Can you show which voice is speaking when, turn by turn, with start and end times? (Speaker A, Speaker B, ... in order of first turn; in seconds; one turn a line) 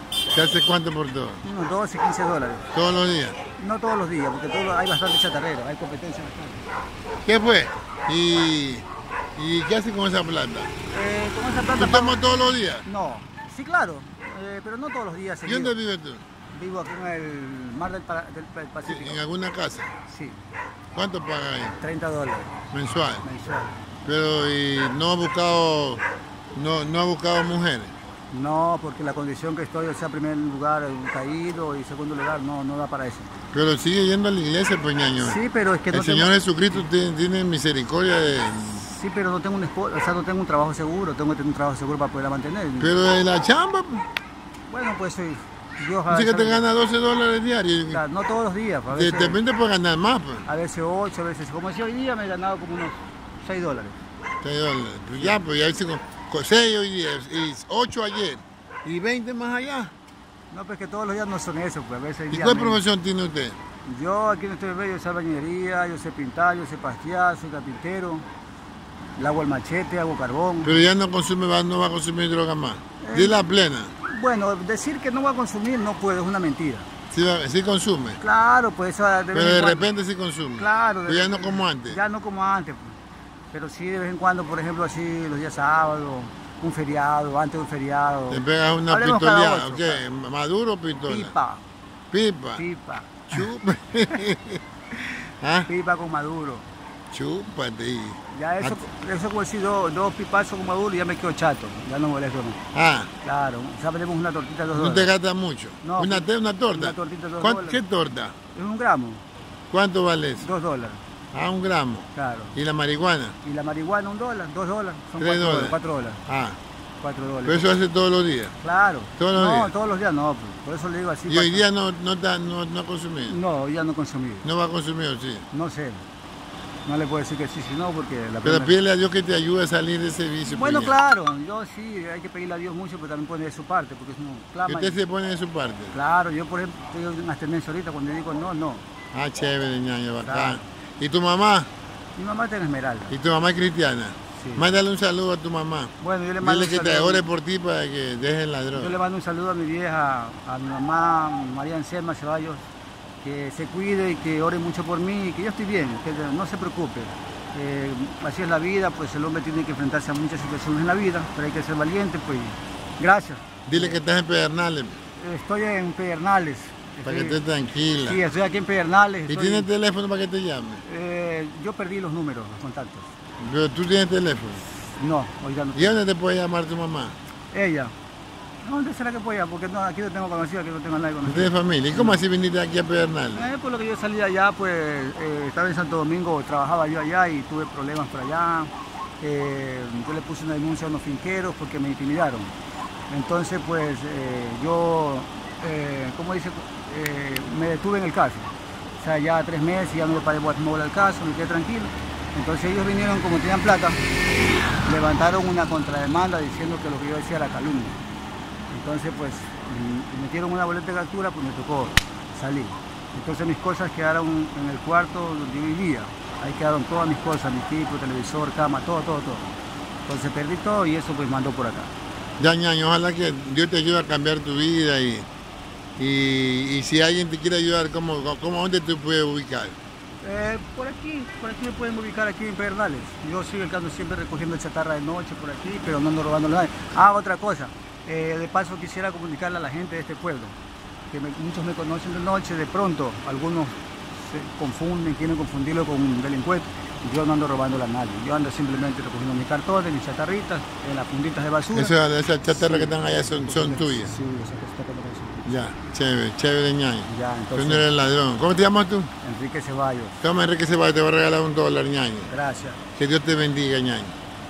Speaker A: 0.3-1.4
Speaker B: 1.4-2.7
Speaker A: 2.7-3.4
Speaker B: 3.6-6.7
Speaker A: 7.2-10.7
Speaker B: 10.9-12.2
Speaker A: 11.7-12.9
Speaker B: 12.8-15.8
Speaker A: 15.4-16.2
Speaker B: 16.5-19.2
Speaker A: 18.9-19.9
Speaker B: 20.1-20.4
Speaker A: 20.9-21.8
Speaker B: 21.8-22.6
Speaker A: 22.7-23.2
Speaker B: 23.2-23.7
Speaker A: 24.1-26.0
Speaker A: 26.6-27.9
Speaker B: 28.3-33.4
Speaker A: 33.5-35.4
Speaker B: 35.2-36.3
Speaker A: 35.9-38.8
Speaker B: 38.6-43.0
Speaker A: 42.8-44.1
Speaker B: 44.7-46.6
Speaker A: 46.1-48.0
Speaker B: 47.9-49.4
Speaker A: 49.0-50.5
Speaker B: 50.5-54.0
Speaker A: 54.4-59.9
Speaker B: 60.5-62.8
Speaker A: 62.3-63.6
Speaker B: 63.9-68.2
Speaker B: 69.2-70.8
Speaker A: 70.6-73.9
Speaker B: 73.0-73.4
Speaker B: 74.0-76.9
Speaker A: 77.1-78.2
Speaker B: 78.2-79.9
Speaker A: 79.3-82.0
Speaker B: 80.6-83.0
Speaker B: 83.5-90.0
Speaker A: 88.3-91.3
Speaker B: 91.1-91.6
Speaker A: 92.1-92.6
Speaker B: 92.6-93.5
Speaker A: 93.3-95.7
Speaker B: 95.7-96.7
Speaker A: 97.1-98.8
Speaker B: 98.3-102.6
Speaker A: 102.7-103.1
Speaker B: 103.2-105.1
Speaker A: 104.8-108.3
Speaker B: 105.8-107.8
Speaker B: 108.5-109.2
Speaker A: 109.7-110.5
Speaker B: 110.4-111.0
Speaker A: 111.3-113.4
Speaker B: 112.2-112.6
Speaker B: 113.4-116.2
Speaker A: 115.2-116.6
Speaker B: 117.0-117.7
Speaker A: 117.5-118.5
Speaker B: 118.6-121.7
Speaker A: 119.2-119.7
Speaker A: 121.3-123.4
Speaker B: 123.3-124.5
Speaker A: 124.4-125.5
Speaker B: 125.5-126.0
Speaker B: 126.9-128.8
Speaker A: 128.4-130.9
Speaker B: 130.4-135.0
Speaker A: 134.7-136.0
Speaker B: 135.9-138.8
Speaker A: 139.1-141.7
Speaker B: 140.2-140.7
Speaker B: 142.2-143.2
Speaker A: 143.1-149.0
Speaker B: 144.4-144.7
Speaker B: 146.0-147.3
Speaker B: 148.8-152.6
Speaker B: 153.2-164.0
Speaker A: 163.7-165.0
Speaker B: 165.2-167.4
Speaker A: 167.1-168.2
Speaker B: 168.1-169.7
Speaker A: 169.3-170.8
Speaker B: 170.8-173.1
Speaker A: 173.4-174.6
Speaker B: 175.0-175.9
Speaker A: 175.8-177.2
Speaker B: 177.5-177.9
Speaker B: 178.6-182.2
Speaker A: 181.2-183.5
Speaker B: 183.3-192.5
Speaker B: 193.1-204.0
Speaker B: 204.8-208.0
Speaker B: 208.7-219.5
Speaker B: 220.1-221.9
Speaker A: 222.4-225.3
Speaker A: 226.0-229.8
Speaker B: 230.2-240.6
Speaker B: 241.1-252.0
Speaker A: 251.7-254.1
Speaker B: 252.5-255.7
Speaker A: 255.5-259.1
Speaker B: 257.1-257.9
Speaker B: 259.2-260.2
Speaker A: 260.2-262.3
Speaker B: 262.3-262.8
Speaker A: 263.0-264.1